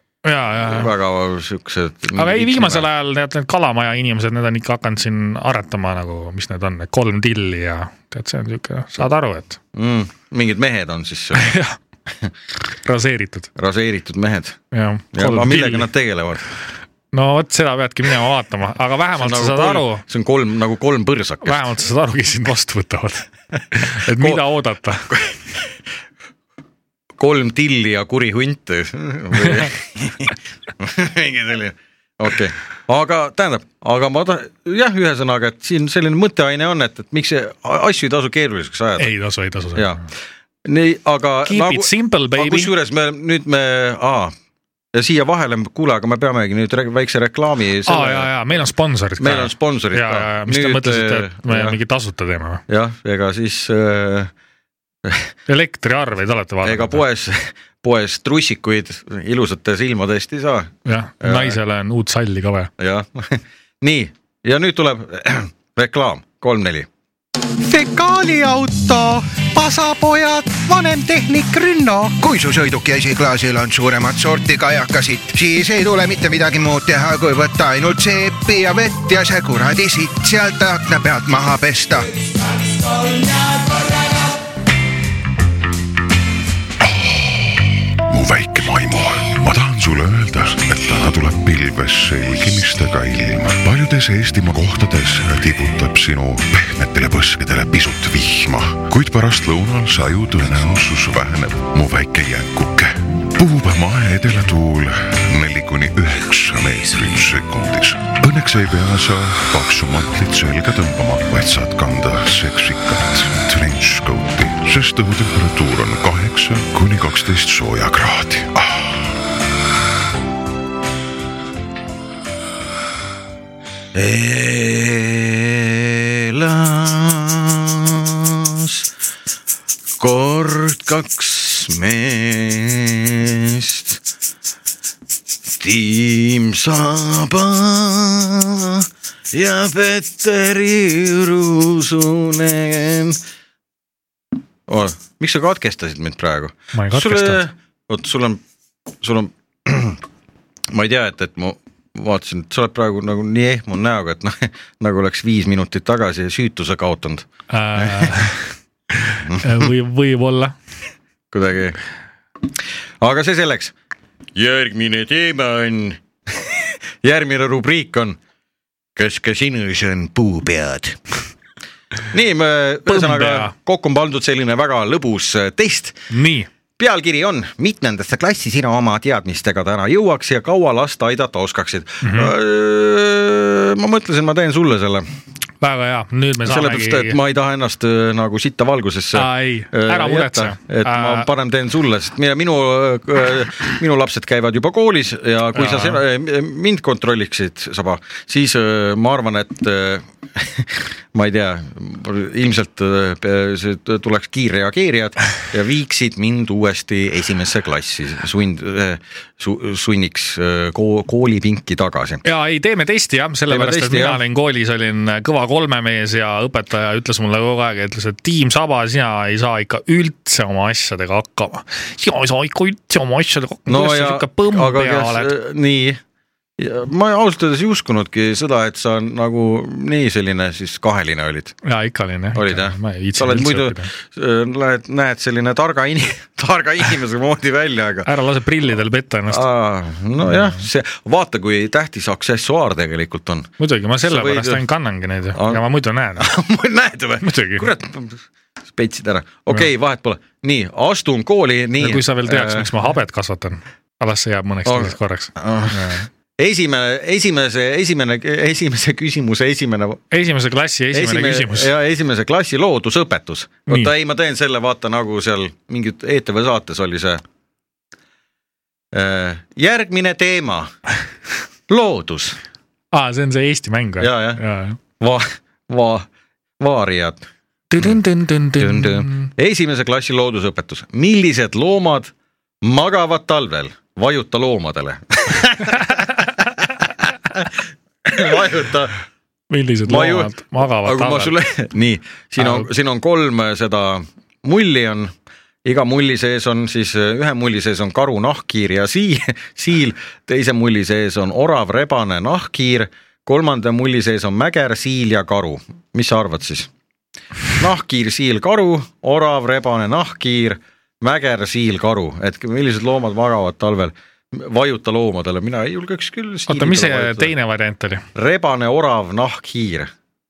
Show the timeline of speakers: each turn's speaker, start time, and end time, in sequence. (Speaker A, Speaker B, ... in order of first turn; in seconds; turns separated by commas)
Speaker A: 0.2-0.9, Speaker B: 0.6-2.9, Speaker A: 2.1-9.6, Speaker B: 9.8-11.6, Speaker A: 11.3-11.8, Speaker A: 12.7-13.5, Speaker B: 13.6-14.6, Speaker A: 14.7-15.9, Speaker B: 15.1-16.4, Speaker A: 17.1-20.0, Speaker B: 19.2-21.7, Speaker A: 21.4-25.1, Speaker B: 24.1-24.4, Speaker B: 25.1-25.4, Speaker B: 27.2-39.1, Speaker A: 29.4-29.7, Speaker A: 39.0-40.0, Speaker B: 39.8-40.0, Speaker B: 40.6-44.3, Speaker A: 41.5-42.7, Speaker B: 44.9-48.3, Speaker A: 47.9-52.6, Speaker B: 49.2-51.8, Speaker B: 52.7-54.3, Speaker B: 55.0-55.3, Speaker A: 55.5-57.0, Speaker B: 56.6-61.6, Speaker A: 60.9-62.7, Speaker B: 62.8-66.9, Speaker B: 67.6-72.2, Speaker C: 72.2-82.1, Speaker D: 86.8-119.0, Speaker B: 123.9-128.8, Speaker B: 130.0-134.0, Speaker B: 135.4-143.2, Speaker B: 144.7-148.4, Speaker A: 146.7-147.4, Speaker B: 149.0-150.0, Speaker B: 150.7-157.3, Speaker A: 157.5-160.6, Speaker B: 157.8-158.1, Speaker B: 159.3-159.7, Speaker B: 161.3-161.8, Speaker B: 163.0-163.7, Speaker B: 164.4-168.2, Speaker B: 169.0-171.0, Speaker B: 172.1-176.1, Speaker A: 172.9-173.5, Speaker A: 176.1-176.5, Speaker B: 176.8-185.1, Speaker A: 182.0-182.3, Speaker A: 185.6-187.2, Speaker B: 186.5-212.2, Speaker A: 189.2-191.3, Speaker A: 195.6-196.0, Speaker A: 212.2-225.3, Speaker B: 213.5-214.2, Speaker B: 223.7-226.0, Speaker B: 226.6-231.6, Speaker A: 231.7-233.9, Speaker B: 232.3-238.1, Speaker A: 238.1-239.4, Speaker B: 239.3-243.5, Speaker A: 240.3-240.6, Speaker A: 243.6-246.3, Speaker B: 244.0-244.6, Speaker B: 245.3-245.6, Speaker B: 246.2-248.2, Speaker A: 247.2-247.7, Speaker B: 248.7-252.7, Speaker A: 251.8-256.1, Speaker B: 254.7-260.0, Speaker A: 260.1-261.7, Speaker B: 260.9-267.2, Speaker B: 268.9-270.7, Speaker B: 271.7-272.4, Speaker A: 272.9-274.8, Speaker B: 274.0-274.4, Speaker B: 275.0-276.1, Speaker B: 276.6-277.2, Speaker A: 277.7-279.3, Speaker B: 278.6-282.1, Speaker B: 282.6-286.7, Speaker B: 288.1-288.9, Speaker A: 289.5-291.3, Speaker B: 289.9-295.1, Speaker A: 292.4-292.7, Speaker B: 295.6-306.7, Speaker B: 307.6-317.3, Speaker A: 316.5-318.0, Speaker B: 318.1-319.9